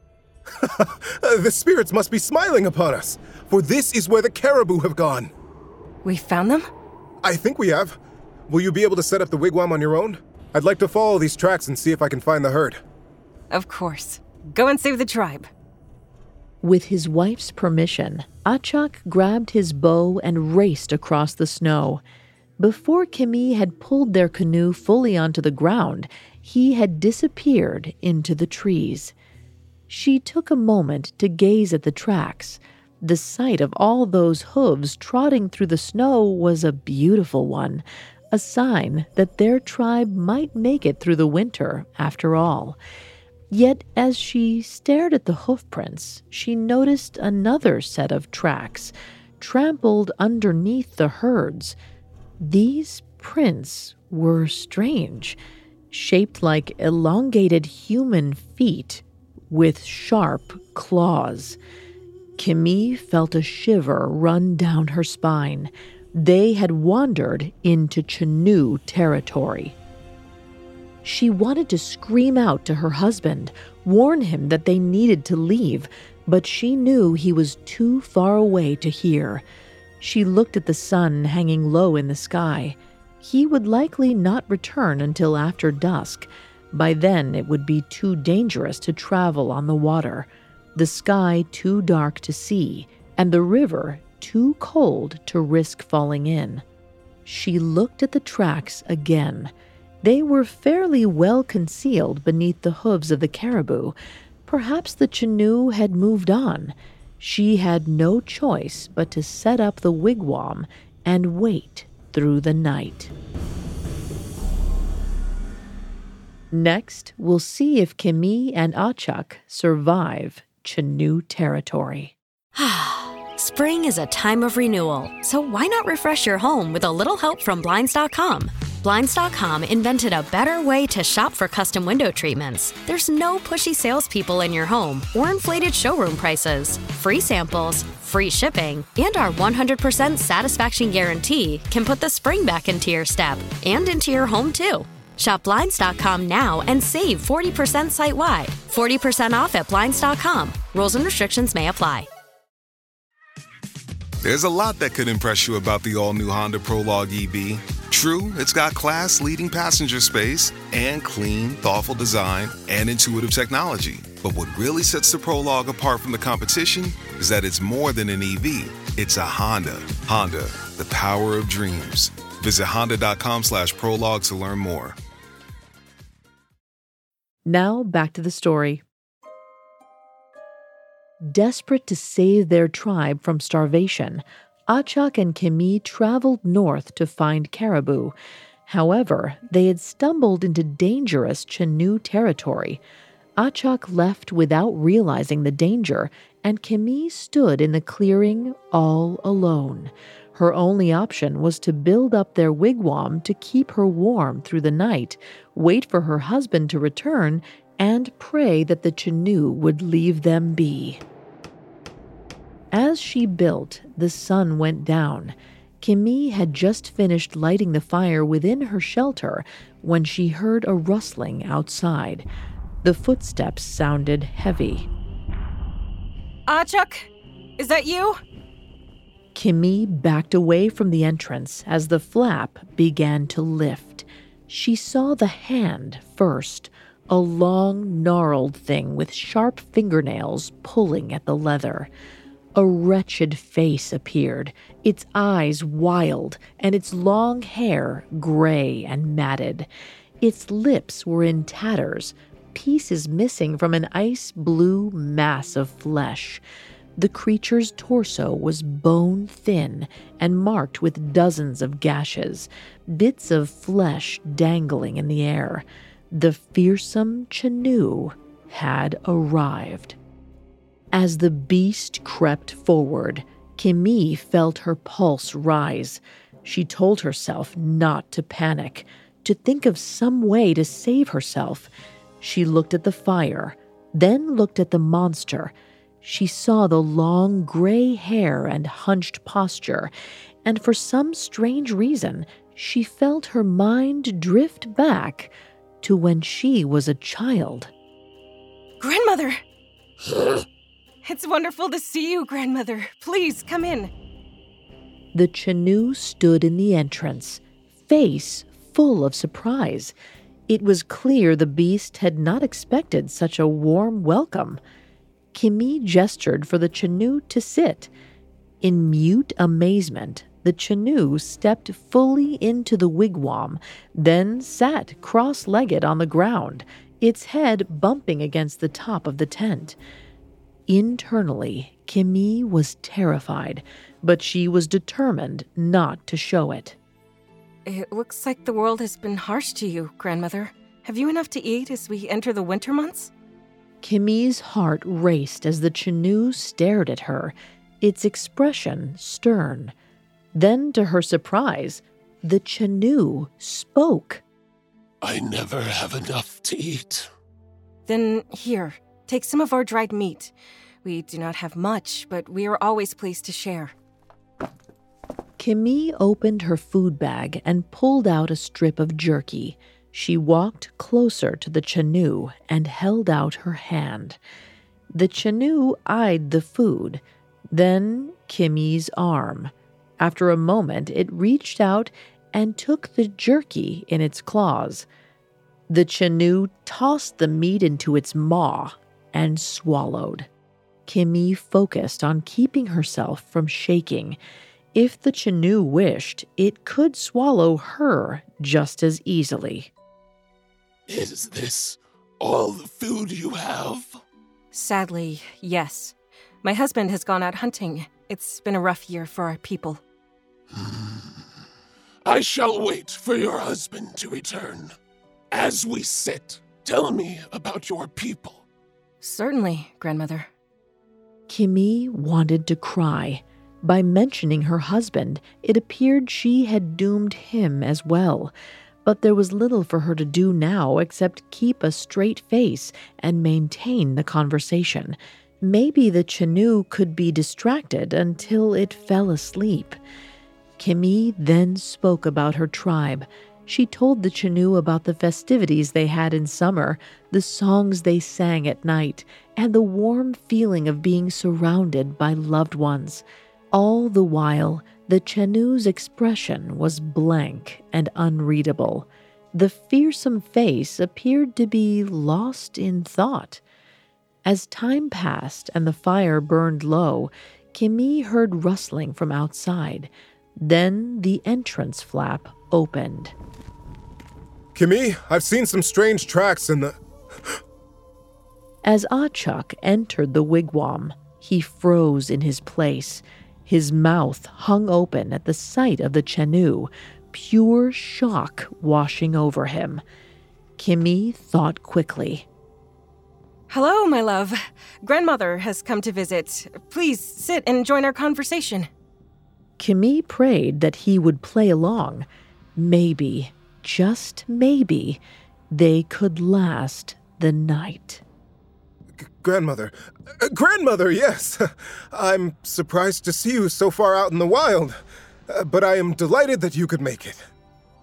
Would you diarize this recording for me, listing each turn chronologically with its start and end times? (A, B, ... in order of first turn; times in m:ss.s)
0:00.6-0:05.3 A
0:06.0-0:06.7 B
0:07.2-0:12.8 A
0:13.5-0:15.5 B
0:16.6-0:22.0 C
0:22.6-0:29.1 C
0:29.9-0:42.8 C
0:43.5-0:51.8 C
0:52.4-0:55.4 C
0:55.9-1:01.6 C
1:02.4-1:09.8 C
1:11.0-1:19.4 C
1:20.0-1:36.6 C
1:37.2-1:53.1 C
1:56.5-2:02.1 C
2:02.5-2:32.1 D
2:34.2-2:55.0 E
2:57.4-2:58.8 C
3:01.2-3:08.1 C
3:08.6-3:12.8 C
3:13.4-3:31.0 C
3:32.7-3:42.2 C
3:42.8-3:44.9 C
3:46.5-3:48.2 B
3:49.3-4:01.9 C
4:02.5-4:09.7 C
4:10.2-4:16.4 C
4:17.0-4:30.0 C
4:30.9-4:41.7 C
4:42.2-4:49.9 C
4:50.4-4:57.7 C
4:58.8-4:59.4 B
5:01.0-5:03.9 B
5:05.1-5:09.9 C
5:10.5-5:14.6 C
5:15.3-5:17.9 C
5:18.6-5:29.8 C
5:30.7-5:36.8 C
5:37.6-5:43.1 B
5:43.8-5:49.7 C
5:50.3-5:54.2 C
5:55.0-5:57.1 F
5:57.8-6:03.7 B
6:05.4-6:14.2 C
6:14.9-6:24.9 C
6:25.7-6:30.3 C
6:30.8-6:34.2 C
6:34.7-6:39.7 C
6:40.9-6:44.0 F
6:44.5-6:49.8 B
6:50.5-6:51.2 F
6:52.0-6:54.7 F
6:55.3-6:58.4 F
6:59.0-7:00.3 B
7:01.3-7:08.3 C
7:08.8-7:19.8 C
7:20.6-7:43.4 C
7:44.2-7:53.1 C
7:54.5-7:57.4 A
7:58.6-8:09.8 C
8:10.6-8:12.2 C
8:13.5-8:18.7 B
8:19.6-8:28.0 C
8:29.0-8:37.2 A